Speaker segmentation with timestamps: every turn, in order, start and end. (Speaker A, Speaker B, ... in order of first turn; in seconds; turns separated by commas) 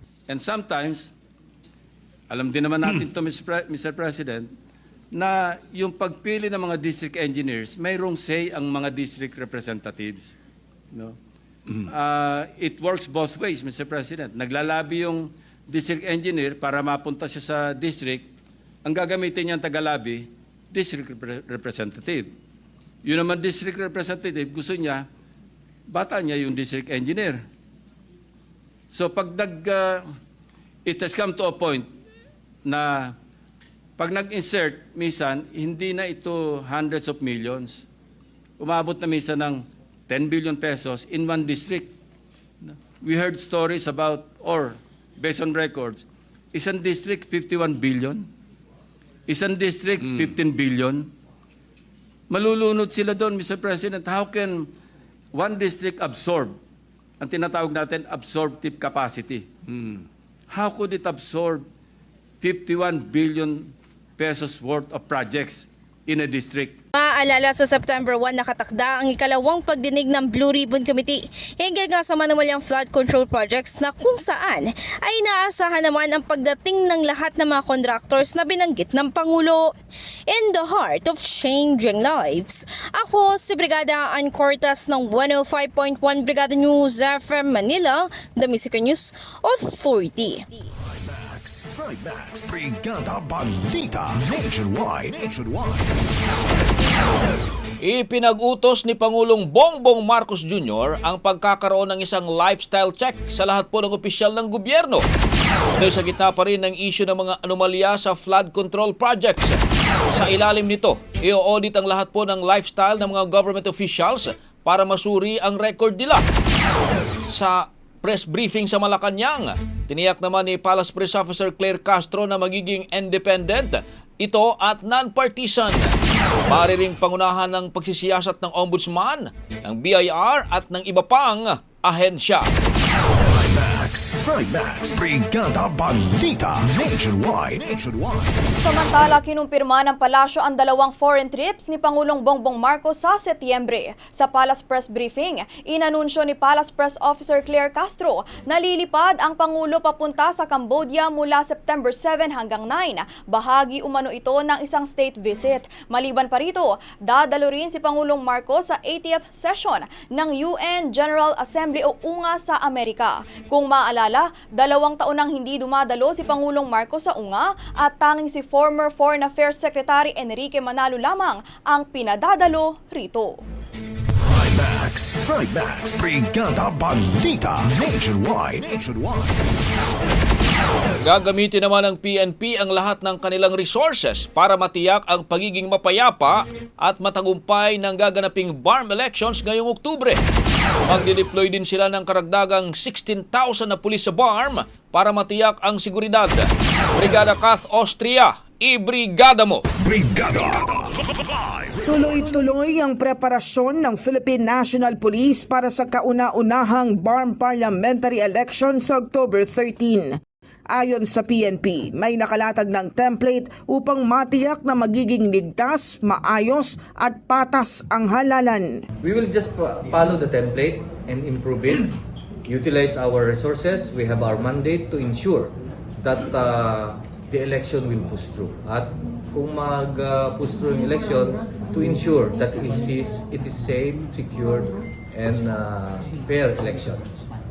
Speaker A: 0.3-1.1, Speaker A: 2.3-4.5, Speaker A: 5.1-10.3, Speaker A: 10.9-11.2, Speaker A: 11.8-18.3, Speaker A: 18.8-22.3, Speaker A: 23.0-25.1, Speaker A: 25.9-27.4, Speaker A: 28.9-30.1, Speaker A: 30.8-31.9, Speaker A: 32.6-33.1, Speaker A: 34.0-37.8, Speaker A: 38.6-41.9, Speaker A: 42.6-48.3, Speaker A: 49.3-51.1, Speaker A: 52.3-54.7, Speaker A: 55.3-56.5, Speaker A: 57.2-59.5, Speaker A: 60.5-61.6, Speaker A: 62.4-66.8, Speaker B: 66.9-79.7, Speaker B: 80.3-90.5, Speaker C: 90.8-96.3, Speaker D: 97.8-105.0, Speaker D: 105.7-116.2, Speaker D: 117.3-132.5, Speaker C: 133.1-138.3, Speaker E: 138.5-173.4, Speaker C: 174.2-179.6, Speaker D: 181.0-190.2, Speaker D: 190.8-199.7, Speaker C: 199.8-200.8, Speaker F: 201.8-210.2, Speaker F: 210.7-218.8, Speaker G: 219.0-221.9, Speaker G: 222.4-237.1